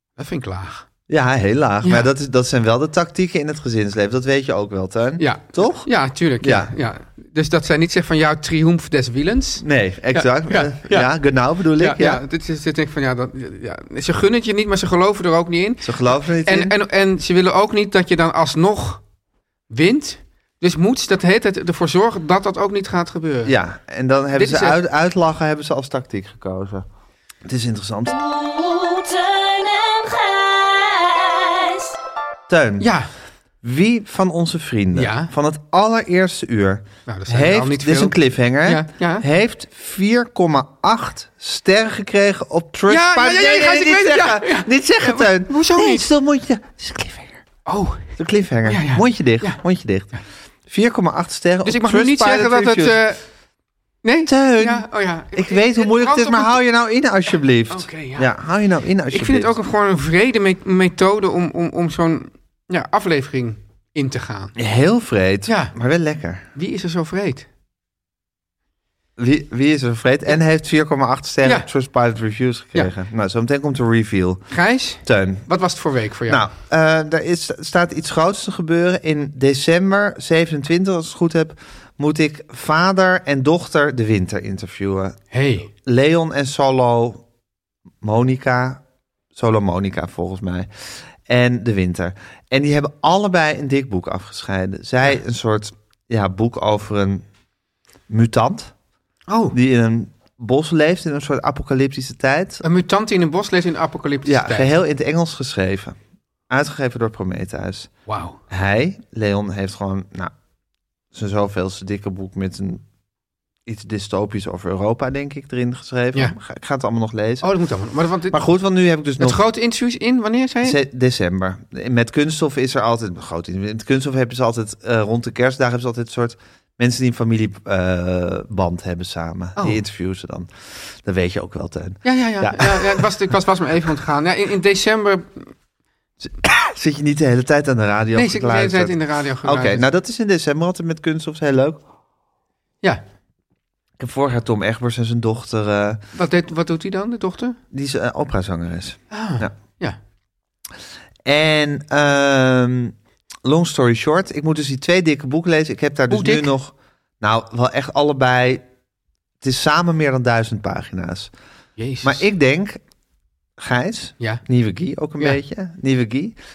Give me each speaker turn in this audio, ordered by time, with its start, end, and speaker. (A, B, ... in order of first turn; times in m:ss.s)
0:00.2-0:00.8 A
0:01.1-0:05.9 B
0:01.8-0:02.1 A
0:05.2-0:11.1 A
0:06.4-0:06.7 B
0:09.6-0:12.2 B
0:11.8-0:19.0 A
0:15.8-0:16.7 B
0:19.7-0:23.5 A
0:23.4-0:26.9 B
0:24.4-0:24.8 A
0:27.4-0:28.1 B
0:28.1-0:31.9 C
0:32.5-0:32.9 B
0:32.8-0:33.1 A
0:33.6-0:47.4 B
0:35.0-0:35.3 A
0:37.1-0:39.3 A
0:42.9-0:46.1 A
0:47.7-0:48.0 A
0:48.2-0:50.1 B
0:48.7-0:49.6 A
0:50.7-0:53.0 B
0:51.6-0:53.2 A
0:54.0-0:56.6 A
0:54.3-0:59.6 B
0:57.7-0:58.3 A
0:59.1-1:04.6 A
1:04.6-1:06.4 B
1:05.5-1:05.7 A
1:06.6-1:07.5 A
1:09.2-1:15.5 B
1:11.4-1:11.7 A
1:14.5-1:16.5 A
1:16.3-1:25.2 B
1:25.3-1:25.7 A
1:25.7-1:27.2 B
1:28.0-1:28.8 B
1:29.4-1:37.2 B
1:38.1-1:38.7 B
1:39.3-1:39.6 A
1:39.5-1:42.6 B
1:42.6-1:44.8 A
1:44.2-1:46.0 B
1:46.5-1:47.9 B
1:48.1-1:48.4 A
1:48.5-1:50.3 B
1:51.1-1:52.8 B
1:53.7-1:57.5 B
1:57.4-1:58.4 A
1:58.3-1:59.4 B
1:59.2-2:00.8 A
2:00.6-2:13.1 B
2:12.0-2:15.5 A
2:16.2-2:21.8 B
2:18.2-2:19.9 A
2:24.0-2:26.0 B
2:26.2-2:27.6 A
2:27.7-2:29.5 B
2:29.1-2:30.0 A
2:31.2-2:38.6 B
2:36.1-2:36.5 A
2:39.4-2:41.3 B
2:41.8-2:42.2 A
2:42.0-2:42.8 B
2:43.6-2:46.4 B